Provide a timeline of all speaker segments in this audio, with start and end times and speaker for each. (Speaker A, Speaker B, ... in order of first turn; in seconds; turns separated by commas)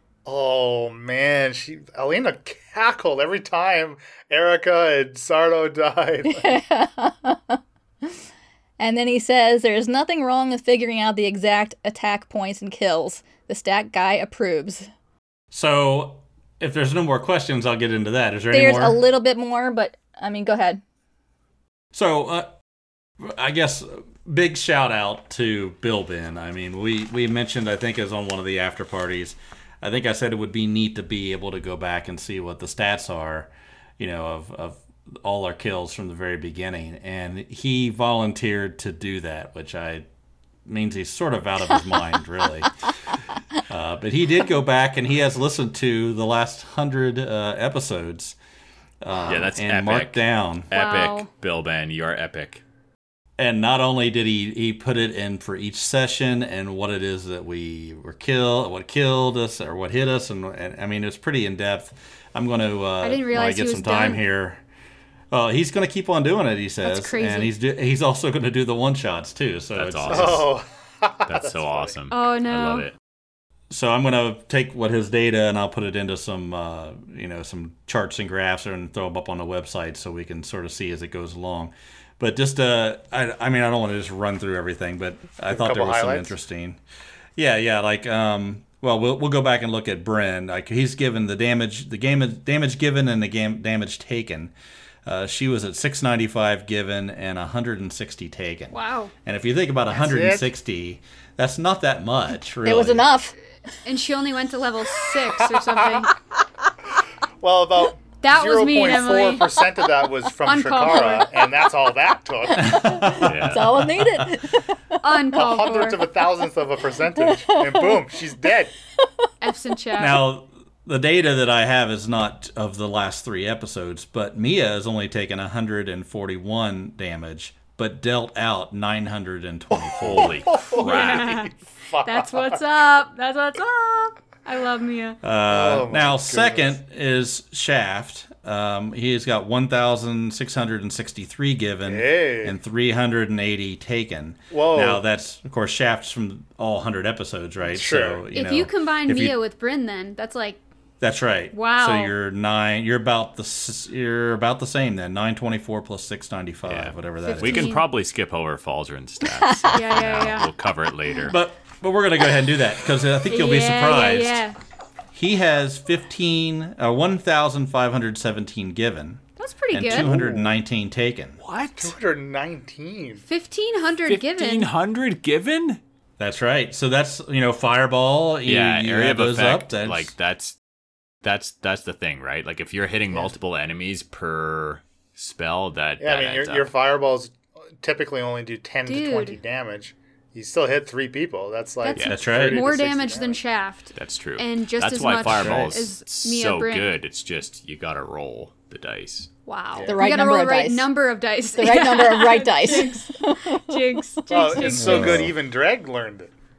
Speaker A: 0.2-6.6, Speaker B: 6.3-8.1, Speaker B: 8.8-14.9, Speaker C: 15.5-19.0, Speaker B: 18.5-20.8, Speaker C: 21.9-22.6, Speaker C: 23.2-40.0, Speaker C: 40.6-43.1, Speaker C: 43.7-48.4, Speaker C: 49.0-50.7, Speaker D: 49.3-52.6, Speaker E: 50.7-51.3, Speaker C: 53.4-64.6, Speaker E: 63.0-64.2, Speaker C: 65.3-70.5, Speaker E: 66.8-67.5, Speaker D: 69.7-70.5, Speaker A: 70.1-72.0, Speaker D: 71.2-72.9, Speaker E: 72.1-72.9, Speaker C: 73.7-86.8, Speaker A: 85.5-86.3, Speaker C: 87.3-94.5, Speaker C: 95.0-103.1, Speaker E: 98.7-99.1, Speaker A: 99.9-100.5, Speaker B: 102.6-103.3, Speaker E: 103.8-106.1, Speaker A: 107.4-113.2, Speaker E: 108.2-109.5, Speaker E: 110.4-111.3, Speaker C: 112.6-114.3, Speaker B: 112.7-115.0, Speaker D: 113.2-113.8, Speaker E: 115.0-116.0, Speaker A: 115.3-118.7, Speaker B: 117.2-118.0, Speaker E: 119.4-120.2, Speaker C: 120.0-130.4, Speaker A: 129.7-132.6, Speaker D: 130.0-131.4, Speaker E: 130.8-135.2, Speaker C: 135.2-149.4, Speaker A: 135.5-136.8, Speaker A: 141.8-142.6, Speaker A: 144.5-145.0, Speaker A: 147.6-148.2, Speaker E: 148.3-150.6, Speaker C: 151.0-157.7, Speaker E: 151.5-152.1, Speaker D: 156.7-161.4, Speaker E: 157.2-157.9, Speaker B: 159.3-159.8, Speaker E: 159.7-160.5, Speaker C: 161.3-164.4, Speaker E: 163.3-164.6, Speaker C: 165.1-171.4, Speaker E: 169.4-170.1, Speaker A: 169.9-170.5, Speaker D: 171.4-171.9, Speaker A: 171.8-173.2, Speaker E: 173.3-174.7, Speaker D: 174.1-175.8, Speaker C: 176.2-180.1, Speaker D: 178.4-180.5, Speaker D: 181.2-186.7, Speaker A: 186.0-193.4, Speaker E: 188.8-189.4, Speaker E: 191.8-196.9, Speaker C: 192.1-192.6, Speaker D: 193.9-199.3, Speaker C: 195.2-195.8, Speaker E: 199.4-205.2, Speaker A: 199.8-200.1, Speaker B: 199.8-200.9, Speaker B: 201.6-203.9, Speaker A: 204.3-206.3, Speaker C: 204.7-205.3